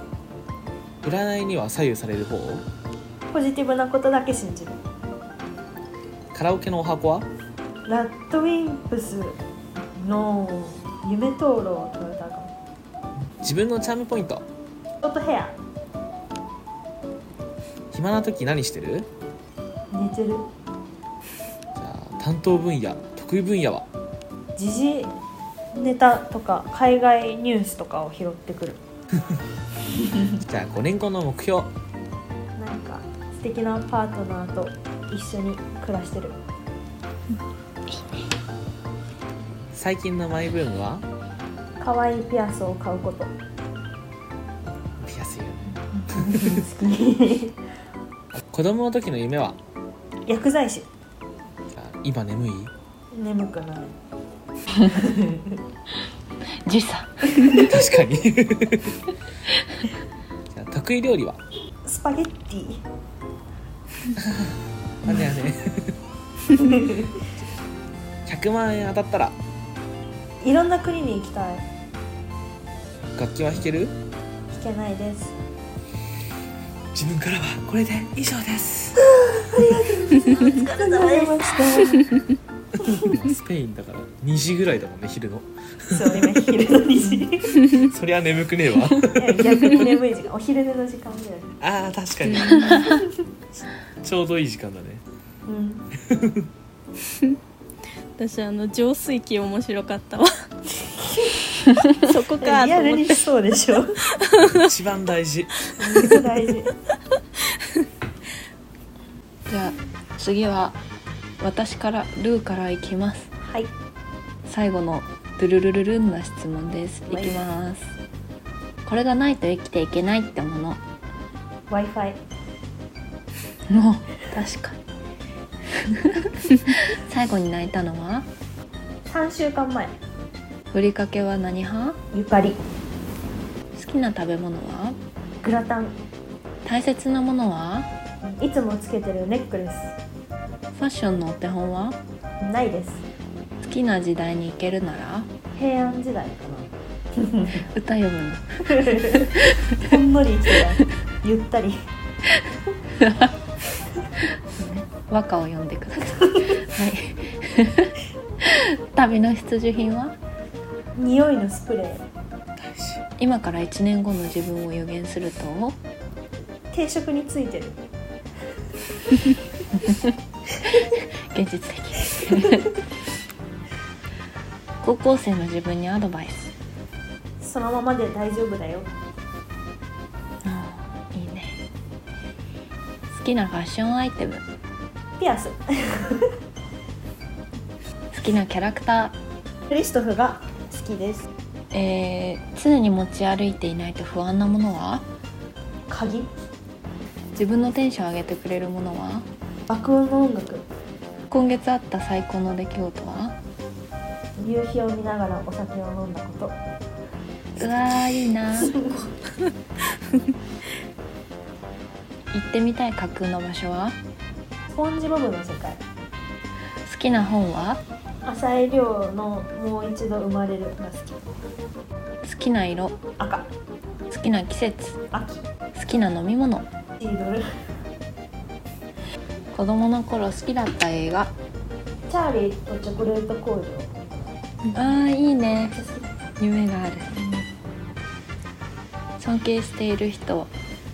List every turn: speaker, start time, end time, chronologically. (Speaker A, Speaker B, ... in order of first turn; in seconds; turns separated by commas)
Speaker A: 1.0-2.7, Speaker B: 3.3-4.8, Speaker A: 6.3-7.3, Speaker B: 7.9-9.4, Speaker B: 10.0-12.5, Speaker A: 13.4-14.4, Speaker B: 15.0-15.6, Speaker A: 17.9-19.1, Speaker B: 19.9-20.5, Speaker A: 21.8-23.9, Speaker B: 24.6-25.1, Speaker B: 25.7-28.8, Speaker A: 30.4-31.7, Speaker B: 32.6-36.4, Speaker A: 39.7-41.1, Speaker B: 41.8-43.3, Speaker A: 45.0-46.5, Speaker B: 46.0-47.6, Speaker A: 48.3-49.6, Speaker B: 50.3-50.9, Speaker A: 51.7-52.7, Speaker B: 53.1-53.9, Speaker B: 54.9-55.6, Speaker C: 56.6-57.7, Speaker A: 57.6-59.0, Speaker A: 60.5-61.4, Speaker B: 61.9-62.8, Speaker A: 65.0-65.9, Speaker B: 66.6-67.1, Speaker A: 68.3-69.4, Speaker B: 70.4-71.6, Speaker A: 73.1-74.0, Speaker B: 74.5-75.4, Speaker A: 76.9-79.0, Speaker B: 79.4-82.1, Speaker D: 80.2-82.0, Speaker A: 82.8-86.3, Speaker B: 86.0-87.6, Speaker A: 87.7-89.8, Speaker B: 89.2-91.5, Speaker A: 91.6-93.0, Speaker A: 94.0-95.0, Speaker B: 95.5-95.9, Speaker A: 96.0-96.5, Speaker D: 98.2-100.3, Speaker B: 100.9-101.5, Speaker D: 101.9-103.2, Speaker B: 102.4-104.0, Speaker D: 104.3-104.7, Speaker A: 104.5-106.2, Speaker B: 105.8-106.7, Speaker C: 109.5-110.8, Speaker C: 111.4-113.3, Speaker B: 113.4-113.7, Speaker C: 114.5-117.9, Speaker B: 117.1-117.4, Speaker C: 118.8-120.8, Speaker B: 121.7-122.2, Speaker C: 123.7-124.8, Speaker C: 125.9-128.3, Speaker B: 129.1-129.9, Speaker C: 130.7-132.0, Speaker B: 132.1-132.6, Speaker C: 133.8-135.0, Speaker B: 135.4-136.0, Speaker C: 136.6-137.9, Speaker B: 138.2-140.0, Speaker C: 140.7-142.0, Speaker B: 142.4-143.1, Speaker C: 143.6-145.3, Speaker B: 145.6-147.6, Speaker C: 147.6-149.7, Speaker B: 148.9-149.2, Speaker B: 149.8-151.8, Speaker C: 153.0-153.3, Speaker C: 154.5-160.2, Speaker B: 160.9-162.1, Speaker A: 162.7-163.0, Speaker C: 163.2-165.8, Speaker B: 166.7-167.8, Speaker C: 169.9-170.1, Speaker C: 170.7-172.8, Speaker C: 174.8-176.5, Speaker B: 177.4-178.9, Speaker C: 180.4-181.6, Speaker C: 183.1-184.4, Speaker B: 185.2-186.3, Speaker C: 188.1-189.2, Speaker B: 189.7-191.3, Speaker C: 191.7-195.1, Speaker B: 195.9-196.3, Speaker C: 197.3-199.3, Speaker B: 199.7-200.6, Speaker C: 201.3-203.4, Speaker B: 204.4-206.6, Speaker C: 207.6-208.8, Speaker C: 212.3-214.0, Speaker B: 214.7-215.8, Speaker C: 216.8-217.8, Speaker B: 218.2-221.3, Speaker C: 222.2-223.0, Speaker B: 223.2-223.5, Speaker C: 224.1-225.0, Speaker B: 225.1-225.4, Speaker C: 225.7-226.7, Speaker B: 227.0-227.4, Speaker C: 229.5-231.3, Speaker B: 232.1-234.3, Speaker C: 234.7-235.8, Speaker B: 235.5-236.1, Speaker C: 236.4-237.2, Speaker C: 239.2-240.5